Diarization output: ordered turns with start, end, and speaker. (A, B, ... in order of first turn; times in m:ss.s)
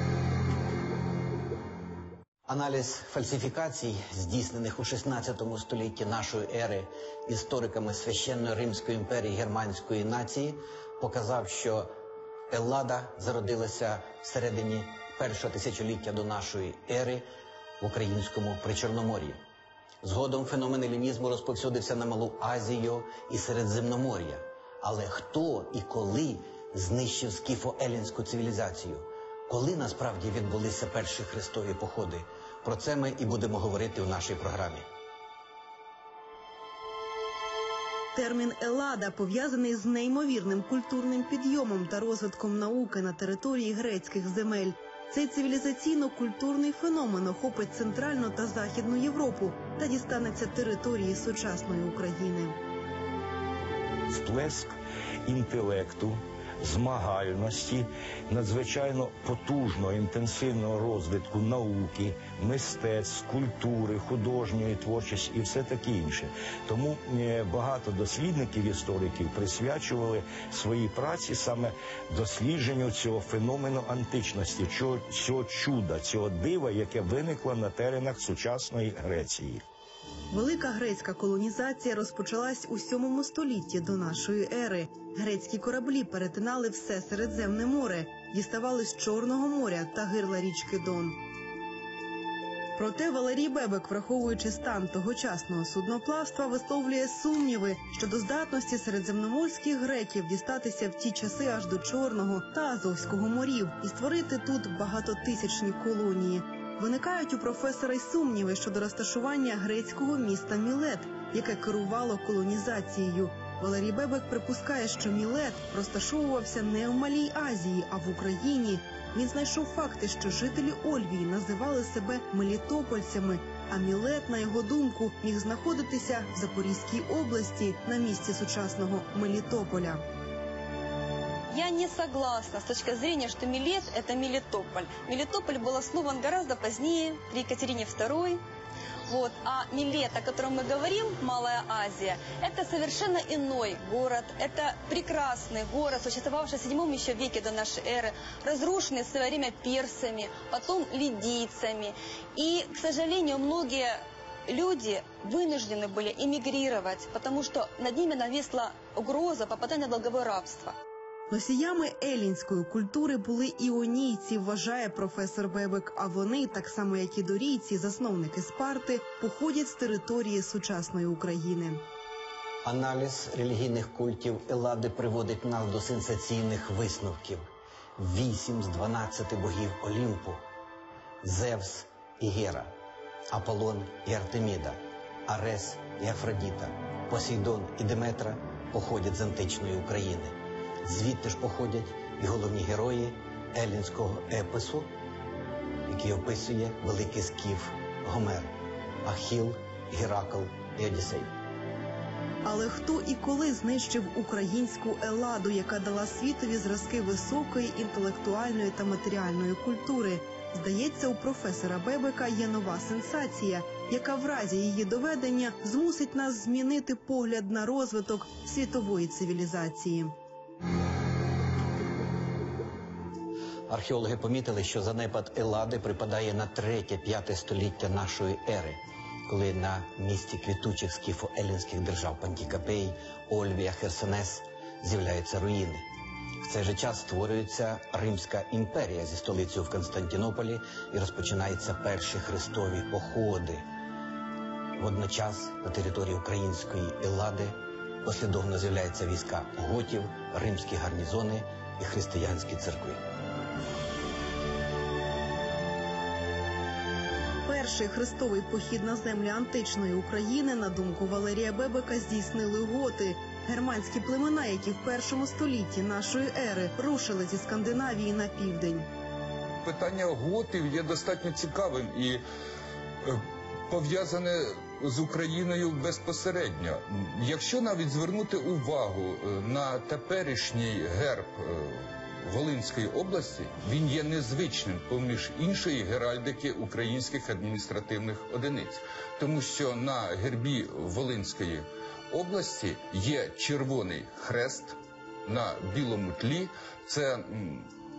0:02.5-0:11.9 A
0:12.5-0:17.3 A
0:17.8-0:19.4 A
0:20.0-0:34.8 A
0:38.2-0:52.6 B
0:54.1-0:54.7 C
0:55.3-1:19.6 C
1:20.3-1:31.2 B
1:32.8-2:10.0 B
2:11.5-2:18.4 D
2:19.1-2:40.8 D
2:41.3-2:51.8 B
2:52.6-3:00.4 A
3:01.2-3:02.7 A
3:03.3-3:14.9 A
3:15.9-3:18.5 A
3:19.0-3:21.3 A
3:22.4-3:40.1 B
3:43.7-3:55.8 A
3:56.4-4:03.7 A
4:04.8-4:13.0 A
4:17.4-4:28.9 B
4:29.6-4:32.2 E
4:33.0-4:57.7 E